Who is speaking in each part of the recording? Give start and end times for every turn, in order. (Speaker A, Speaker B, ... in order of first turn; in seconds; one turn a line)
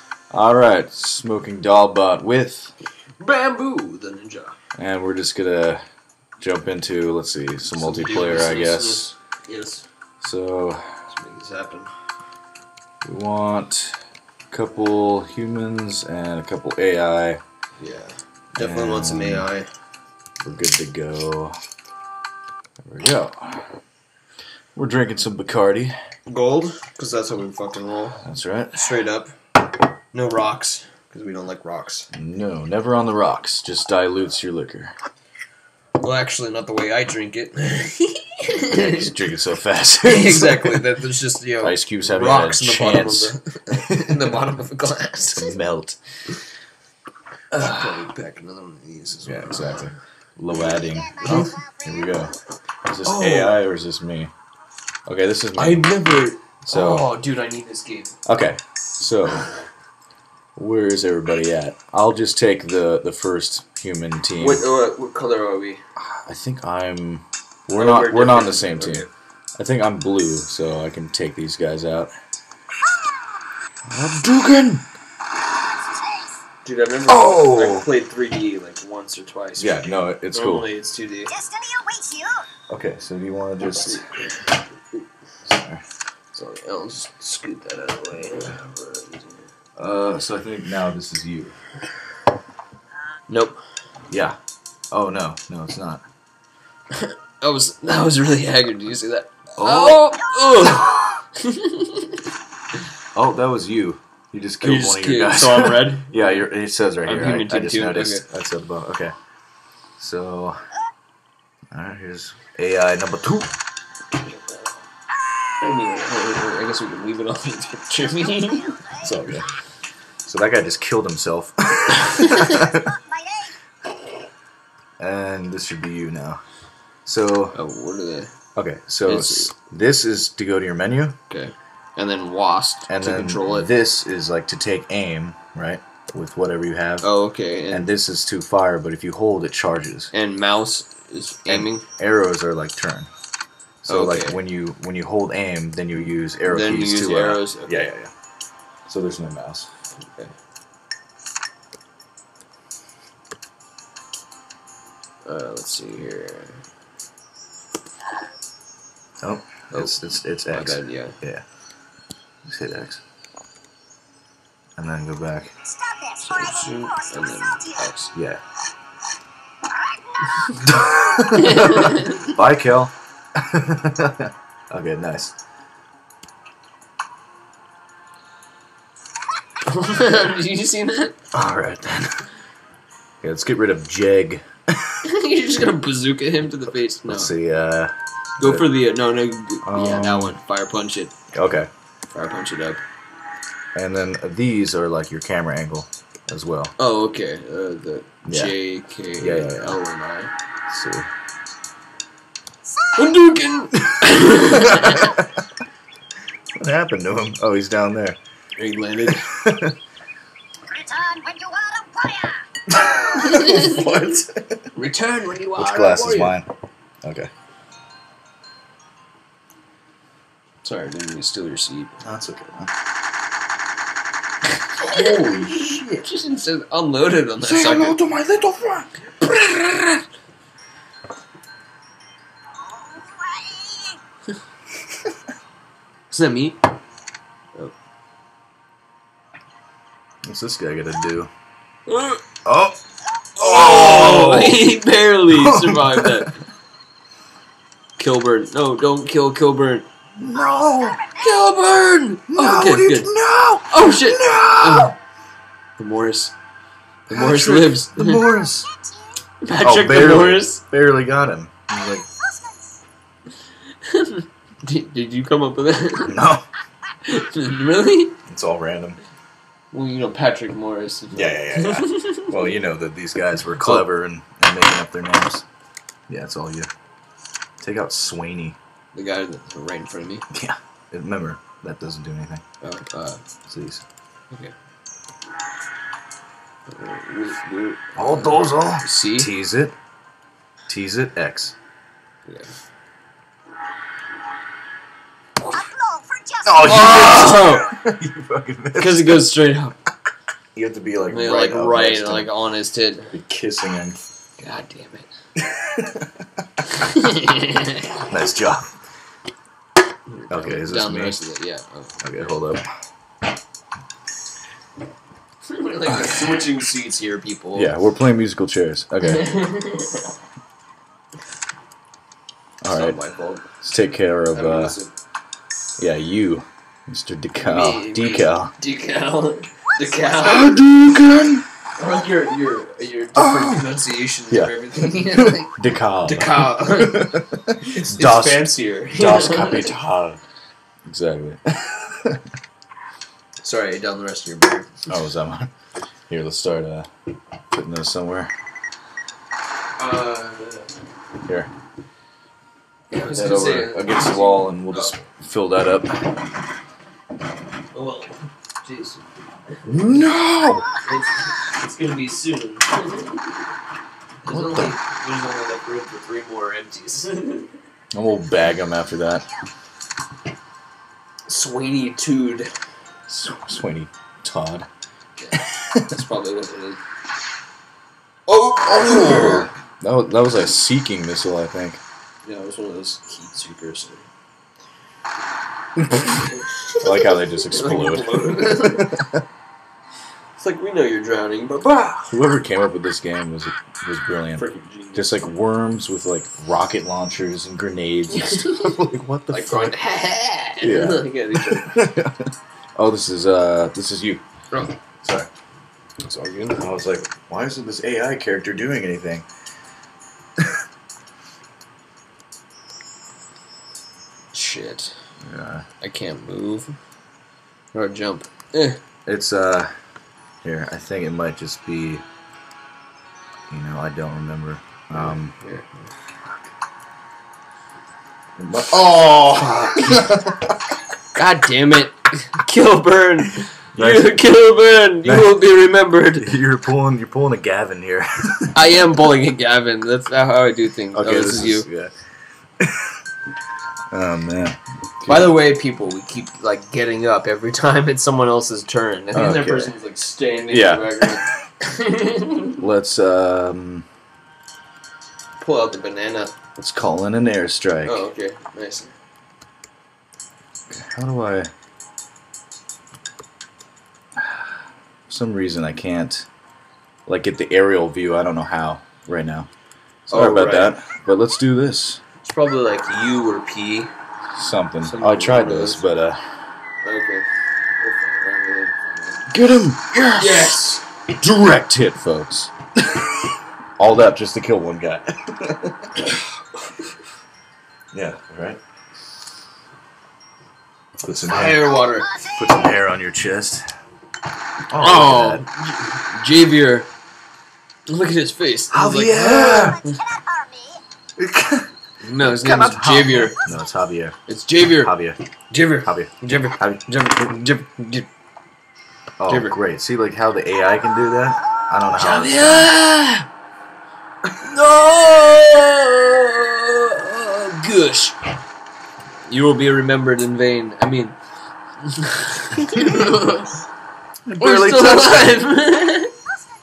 Speaker A: 0.3-2.7
Speaker B: 3.2-4.5
Speaker A: 4.8-5.8
Speaker A: 6.4-9.1
Speaker B: 7.8-9.9
Speaker A: 10.2-10.8
Speaker B: 11.1-11.9
Speaker A: 13.0-17.4
Speaker B: 17.8-19.7
Speaker A: 18.6-19.5
Speaker A: 20.4-21.6
Speaker A: 22.9-23.7
Speaker A: 24.7-25.9
Speaker B: 26.3-28.2
Speaker A: 28.2-28.9
Speaker B: 28.7-29.4
Speaker B: 30.1-32.1
Speaker A: 32.1-34.9
Speaker B: 36.0-39.0
Speaker A: 38.6-40.8
Speaker B: 40.0-45.6
Speaker A: 41.6-44.5
Speaker A: 45.3-46.0
Speaker B: 47.5-49.9
Speaker A: 47.5-48.1
Speaker A: 49.2-52.3
Speaker B: 51.2-51.6
Speaker A: 52.9-54.3
Speaker B: 53.0-53.6
Speaker A: 55.1-56.0
Speaker B: 55.6-58.1
Speaker A: 56.6-57.1
Speaker A: 58.2-59.5
Speaker A: 60.5-64.6
Speaker B: 64.4-65.8
Speaker A: 66.0-69.0
Speaker B: 67.7-69.1
Speaker A: 69.6-72.1
Speaker A: 73.9-74.8
Speaker B: 76.6-79.8
Speaker A: 77.1-77.9
Speaker A: 79.6-80.7
Speaker B: 80.3-81.5
Speaker C: 81.5-82.4
Speaker A: 82.7-84.0
Speaker B: 83.8-84.6
Speaker A: 85.4-85.8
Speaker B: 86.3-89.5
Speaker A: 89.8-91.5
Speaker B: 93.3-93.6
Speaker A: 94.1-94.4
Speaker A: 94.9-96.0
Speaker B: 96.9-102.3
Speaker A: 99.6-100.1
Speaker A: 103.1-109.1
Speaker B: 104.6-106.4
Speaker B: 107.0-108.2
Speaker A: 110.0-110.5
Speaker A: 111.7-113.5
Speaker B: 114.2-114.6
Speaker B: 115.6-118.8
Speaker A: 119.0-119.5
Speaker A: 120.2-123.0
Speaker A: 125.0-126.4
Speaker A: 127.0-127.5
Speaker B: 127.5-128.3
Speaker A: 128.6-131.2
Speaker B: 129.1-129.5
Speaker B: 131.3-133.7
Speaker A: 132.9-137.1
Speaker B: 137.0-137.9
Speaker A: 137.7-140.1
Speaker B: 140.1-141.8
Speaker A: 141.5-143.1
Speaker A: 143.8-148.1
Speaker B: 143.9-144.4
Speaker B: 146.4-147.8
Speaker A: 148.8-149.7
Speaker B: 150.0-150.3
Speaker B: 155.2-156.6
Speaker A: 159.2-161.4
Speaker B: 160.5-161.2
Speaker A: 162.4-163.0
Speaker A: 164.8-165.5
Speaker B: 166.1-168.1
Speaker A: 168.1-168.4
Speaker B: 170.3-170.6
Speaker A: 170.6-175.3
Speaker B: 171.4-172.3
Speaker B: 179.6-181.1
Speaker A: 181.3-182.2
Speaker A: 183.2-185.0
Speaker B: 185.0-187.3
Speaker A: 187.1-188.7
Speaker B: 188.4-191.1
Speaker A: 189.6-190.4
Speaker A: 191.3-191.7
Speaker B: 192.1-192.8
Speaker A: 193.7-196.7
Speaker B: 196.8-200.3
Speaker A: 198.2-198.5
Speaker A: 199.2-199.8
Speaker A: 200.7-201.1
Speaker B: 202.9-205.2
Speaker A: 204.5-205.2
Speaker A: 206.6-208.2
Speaker B: 208.6-209.3
Speaker A: 209.1-209.8
Speaker C: 210.7-212.4
Speaker A: 212.7-214.6
Speaker B: 213.2-213.8
Speaker B: 214.7-216.3
Speaker A: 215.6-216.5
Speaker A: 217.0-217.3
Speaker B: 220.6-222.0
Speaker A: 222.0-222.7
Speaker A: 224.8-226.0
Speaker B: 224.8-228.0
Speaker A: 227.4-228.9
Speaker B: 229.2-230.0
Speaker C: 233.3-233.6
Speaker B: 236.1-236.6
Speaker A: 240.2-241.3
Speaker B: 241.9-242.2
Speaker A: 242.4-242.8
Speaker A: 243.4-244.7
Speaker B: 243.4-246.4
Speaker A: 245.3-246.3
Speaker B: 248.0-249.8
Speaker A: 250.2-251.1
Speaker B: 251.1-253.1
Speaker A: 252.3-254.9
Speaker B: 253.7-254.9
Speaker B: 255.8-256.3
Speaker B: 257.1-258.2
Speaker A: 257.1-258.7
Speaker B: 259.4-260.6
Speaker A: 259.6-262.1
Speaker B: 263.8-266.2
Speaker A: 266.1-266.4
Speaker B: 267.1-268.2
Speaker A: 268.3-269.0
Speaker B: 269.7-272.2
Speaker A: 271.1-275.4
Speaker B: 273.6-273.8
Speaker A: 276.1-276.7
Speaker A: 277.6-278.6
Speaker B: 278.9-280.2
Speaker A: 280.3-282.4
Speaker B: 282.6-283.2
Speaker A: 283.5-283.8
Speaker B: 286.6-289.3
Speaker A: 287.9-289.7
Speaker A: 290.7-291.5
Speaker B: 292.2-292.5
Speaker C: 295.8-296.4
Speaker A: 296.4-299.3
Speaker B: 296.6-297.7
Speaker B: 298.8-299.8
Speaker A: 300.5-302.3
Speaker B: 301.1-303.1
Speaker A: 303.1-304.0
Speaker B: 304.4-305.1
Speaker A: 305.4-306.2
Speaker B: 306.7-308.1
Speaker A: 308.1-308.7
Speaker B: 310.1-312.4
Speaker A: 310.3-311.2
Speaker A: 312.0-312.6
Speaker B: 315.4-317.7
Speaker A: 315.9-316.4
Speaker A: 317.5-319.4
Speaker B: 319.0-320.1
Speaker A: 322.6-322.9
Speaker B: 322.7-323.5
Speaker A: 323.6-324.8
Speaker B: 324.3-324.9
Speaker A: 325.8-328.5
Speaker B: 327.4-330.6
Speaker A: 330.2-331.4
Speaker B: 331.8-339.7
Speaker A: 333.1-333.7
Speaker A: 334.3-340.2
Speaker A: 340.9-342.2
Speaker B: 343.4-344.9
Speaker A: 344.9-345.5
Speaker A: 346.1-346.9
Speaker A: 347.5-348.3
Speaker B: 349.8-350.7
Speaker B: 352.9-355.0
Speaker A: 353.1-356.3
Speaker B: 357.7-359.0
Speaker A: 359.6-360.7
Speaker B: 360.8-363.2
Speaker B: 364.2-367.5
Speaker A: 364.3-364.7
Speaker A: 367.9-369.2
Speaker B: 371.3-372.5
Speaker A: 373.1-374.7
Speaker B: 375.2-376.8
Speaker A: 375.4-375.9
Speaker B: 378.3-379.5
Speaker A: 378.6-381.8
Speaker B: 382.2-384.1
Speaker A: 385.8-389.2
Speaker B: 386.1-389.0
Speaker B: 390.4-392.2
Speaker A: 392.1-399.7
Speaker B: 394.4-395.2
Speaker B: 398.1-398.7
Speaker B: 399.3-401.8
Speaker A: 400.6-404.2
Speaker A: 405.0-405.3
Speaker B: 406.1-406.6
Speaker A: 406.4-409.3
Speaker B: 414.3-415.0
Speaker A: 415.2-415.6
Speaker B: 415.8-416.8
Speaker B: 417.7-418.8
Speaker A: 419.1-419.7
Speaker A: 420.4-422.0
Speaker A: 423.5-425.3
Speaker B: 424.9-425.9
Speaker A: 428.4-430.6
Speaker B: 429.7-430.1
Speaker B: 431.1-436.3
Speaker A: 433.8-434.1
Speaker A: 435.0-435.4
Speaker A: 436.2-438.5
Speaker B: 438.5-441.7
Speaker A: 440.9-442.0
Speaker A: 442.6-443.0
Speaker A: 443.9-445.4
Speaker B: 445.1-452.6
Speaker A: 449.1-449.7
Speaker A: 450.5-451.2
Speaker A: 452.6-453.9
Speaker B: 455.4-456.4
Speaker A: 456.6-458.0
Speaker B: 457.9-458.9
Speaker A: 460.7-461.5
Speaker A: 464.2-464.5
Speaker A: 465.1-466.3
Speaker A: 467.1-469.5
Speaker A: 470.1-472.0
Speaker B: 470.1-470.8
Speaker B: 472.2-473.9
Speaker A: 474.4-476.2
Speaker B: 474.8-475.8
Speaker B: 476.8-477.2
Speaker B: 477.8-479.3
Speaker A: 479.3-486.1
Speaker B: 480.1-480.8
Speaker A: 487.9-488.6
Speaker A: 491.0-493.7
Speaker B: 491.2-492.2
Speaker A: 494.7-495.4
Speaker B: 494.7-496.9
Speaker B: 497.9-500.0
Speaker A: 498.7-499.8
Speaker C: 500.3-500.8
Speaker A: 501.2-501.7
Speaker B: 502.0-503.4
Speaker A: 502.2-504.1
Speaker B: 504.3-504.9
Speaker A: 504.7-505.2
Speaker B: 505.5-508.1
Speaker A: 505.8-506.8
Speaker A: 509.2-512.8
Speaker B: 509.3-509.6
Speaker B: 511.9-513.3
Speaker B: 514.4-518.2
Speaker B: 519.3-521.2
Speaker B: 521.8-523.6
Speaker A: 524.2-525.4
Speaker B: 524.4-526.1